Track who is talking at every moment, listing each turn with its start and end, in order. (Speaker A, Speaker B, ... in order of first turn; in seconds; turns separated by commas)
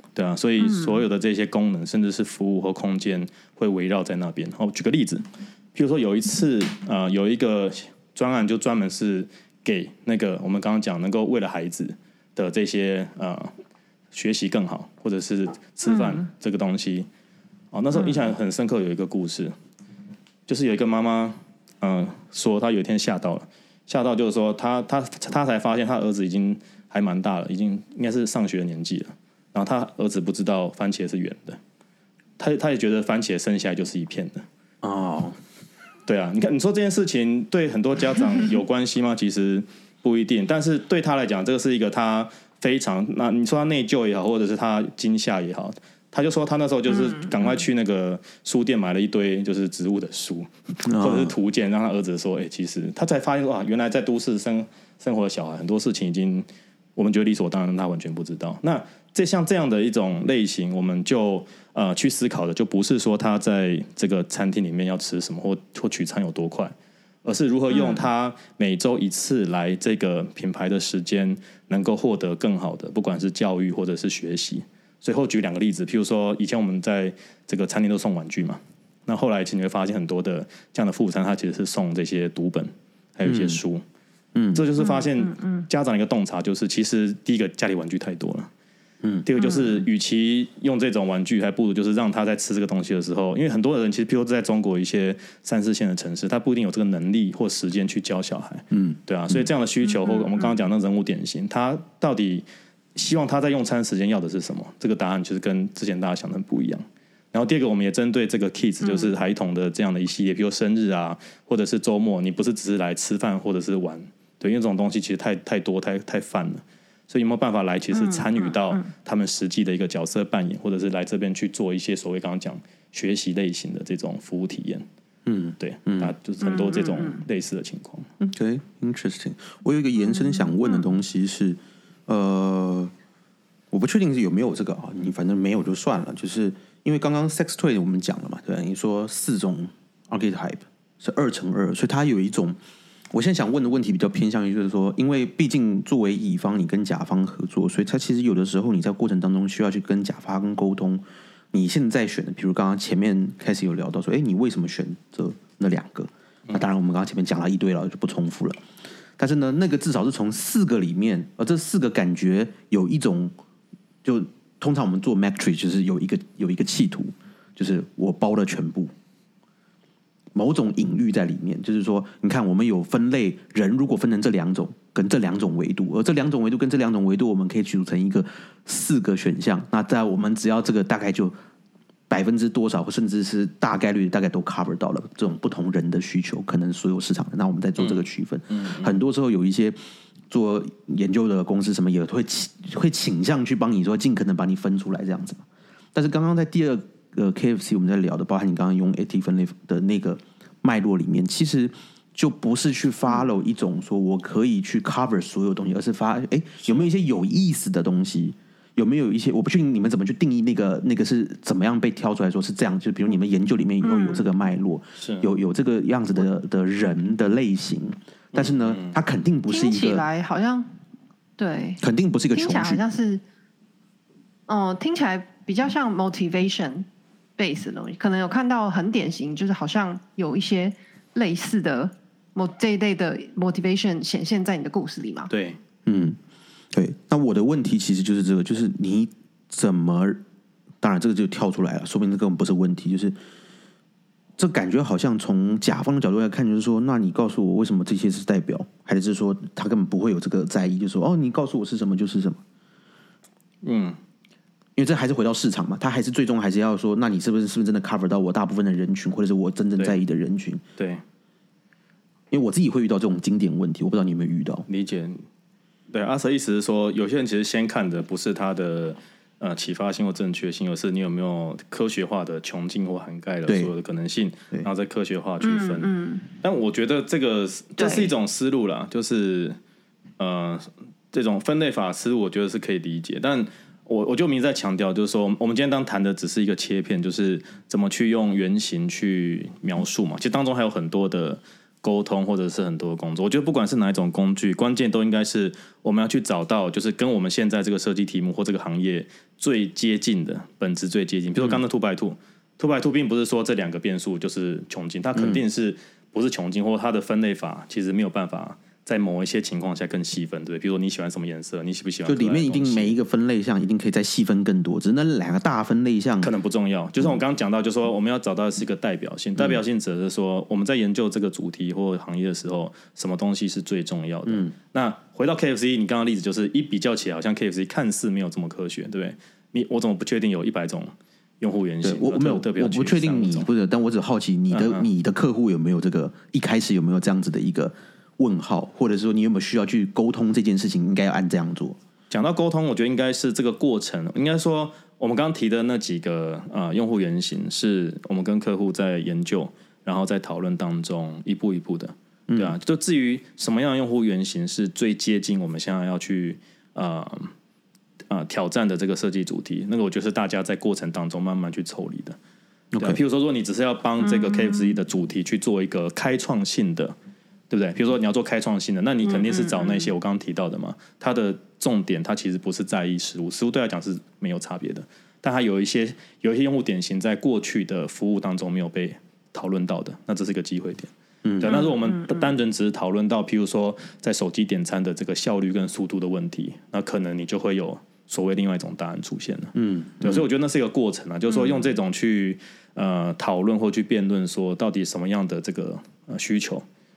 Speaker A: 0.1-13.5, Speaker B: 0.6-1.0, Speaker A: 14.1-17.1, Speaker B: 15.9-16.2, Speaker A: 17.7-19.5, Speaker A: 20.5-31.6, Speaker A: 32.4-34.5, Speaker C: 34.8-35.4, Speaker A: 36.0-83.8, Speaker C: 50.8-51.3, Speaker B: 67.7-68.0, Speaker C: 83.2-83.6, Speaker C: 84.3-84.7, Speaker A: 84.5-88.5, Speaker B: 84.8-85.6, Speaker A: 89.2-124.8, Speaker C: 98.7-99.5, Speaker B: 108.8-109.1, Speaker B: 117.9-118.8, Speaker C: 125.2-126.1, Speaker A: 125.6-128.1, Speaker B: 126.6-127.2, Speaker C: 128.2-132.9, Speaker C: 133.7-142.6, Speaker C: 143.1-158.6, Speaker C: 159.2-163.3, Speaker C: 164.0-168.9, Speaker C: 170.3-181.3, Speaker C: 182.1-189.8, Speaker A: 187.8-189.0, Speaker C: 190.3-220.0, Speaker B: 213.8-214.2, Speaker A: 215.0-215.3, Speaker A: 218.3-219.0, Speaker B: 219.5-220.7, Speaker B: 221.4-221.8, Speaker C: 221.8-222.8, Speaker B: 222.3-223.2, Speaker B: 224.5-235.3, Speaker A: 235.3-235.6, Speaker C: 235.8-236.2, Speaker C: 236.7-240.2, Speaker C: 240.8-243.2, Speaker C: 244.4-252.4, Speaker A: 253.6-254.0, Speaker C: 254.8-260.6, Speaker A: 260.8-261.0, Speaker C: 262.3-264.7, Speaker A: 264.7-265.2, Speaker A: 265.9-279.6, Speaker C: 273.5-273.7, Speaker B: 275.4-276.2, Speaker B: 277.8-278.1, Speaker A: 280.2-312.9, Speaker C: 305.1-305.4, Speaker C: 312.1-316.3, Speaker A: 316.2-333.5, Speaker C: 324.2-324.5, Speaker C: 331.8-341.8, Speaker A: 334.5-334.9, Speaker A: 342.1-357.3, Speaker C: 352.3-352.5, Speaker A: 358.1-362.2, Speaker C: 362.7-363.0, Speaker A: 362.8-366.9, Speaker B: 364.0-364.7, Speaker A: 367.5-396.6, Speaker B: 369.0-369.9, Speaker C: 381.2-381.6, Speaker B: 381.5-382.2, Speaker C: 389.5-390.2